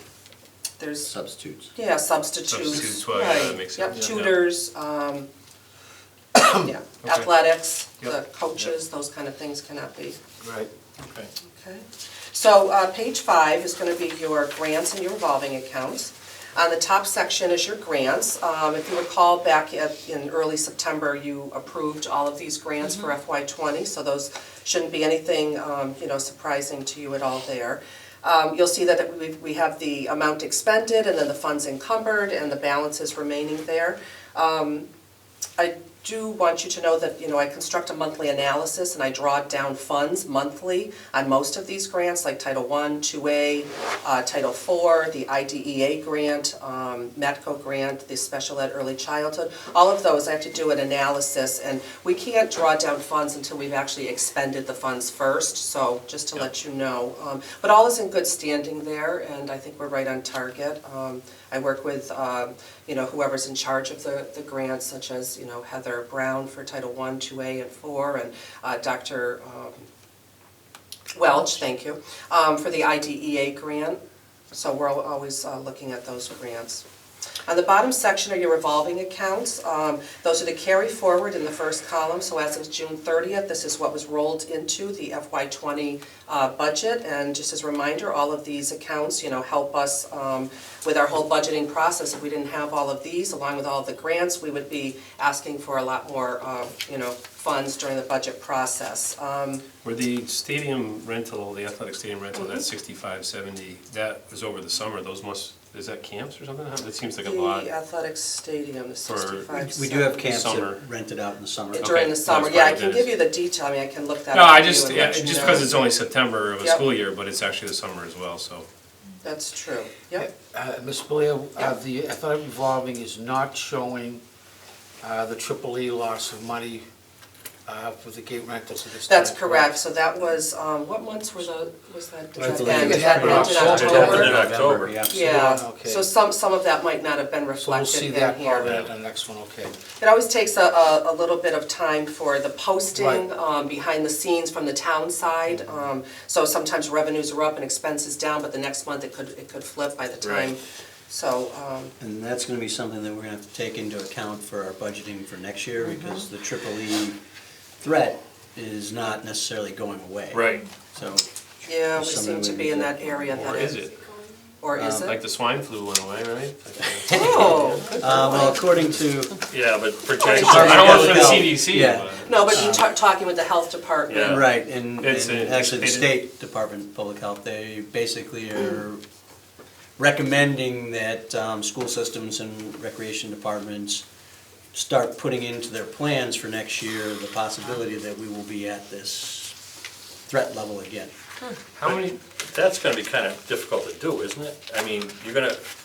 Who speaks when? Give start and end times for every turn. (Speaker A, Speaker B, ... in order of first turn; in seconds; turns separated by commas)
Speaker A: 0.8-1.1, Speaker B: 1.0-1.7, Speaker A: 1.7-5.3, Speaker C: 2.5-4.3, Speaker A: 6.5-10.2, Speaker C: 7.0-7.3, Speaker D: 11.0-11.3, Speaker A: 11.4-34.9, Speaker A: 35.6-69.8, Speaker A: 71.1-74.0, Speaker A: 74.5-76.8, Speaker A: 77.5-99.6, Speaker C: 99.8-107.7, Speaker A: 102.4-102.6, Speaker A: 107.2-110.2, Speaker C: 109.0-109.5, Speaker B: 109.5-111.9, Speaker C: 110.0-110.8, Speaker C: 111.7-113.1, Speaker A: 111.8-115.8, Speaker C: 114.3-118.7, Speaker A: 116.6-116.8, Speaker A: 119.2-120.3, Speaker E: 120.1-124.2, Speaker E: 125.0-126.8, Speaker E: 127.7-129.8, Speaker A: 129.1-134.4, Speaker E: 132.4-134.4, Speaker B: 132.4-135.4, Speaker D: 133.1-135.0, Speaker E: 135.0-136.1, Speaker A: 135.1-138.8, Speaker E: 137.6-139.8, Speaker A: 140.0-151.9, Speaker E: 142.9-143.2, Speaker D: 150.2-150.5, Speaker B: 152.0-157.2, Speaker B: 157.8-161.2, Speaker D: 160.3-160.6, Speaker A: 161.7-163.8, Speaker B: 161.9-163.0, Speaker C: 163.4-163.9, Speaker A: 164.6-165.2, Speaker B: 164.7-165.2, Speaker C: 165.0-168.5, Speaker A: 167.1-168.5, Speaker B: 168.0-169.4, Speaker D: 169.5-171.2, Speaker A: 170.2-171.5, Speaker B: 170.3-172.9, Speaker C: 170.4-172.4, Speaker A: 172.2-174.4, Speaker D: 174.1-174.4, Speaker B: 174.2-179.0, Speaker C: 175.0-176.2, Speaker B: 180.0-184.0, Speaker B: 184.7-189.5, Speaker B: 190.3-191.1, Speaker C: 191.7-192.2, Speaker D: 191.8-195.6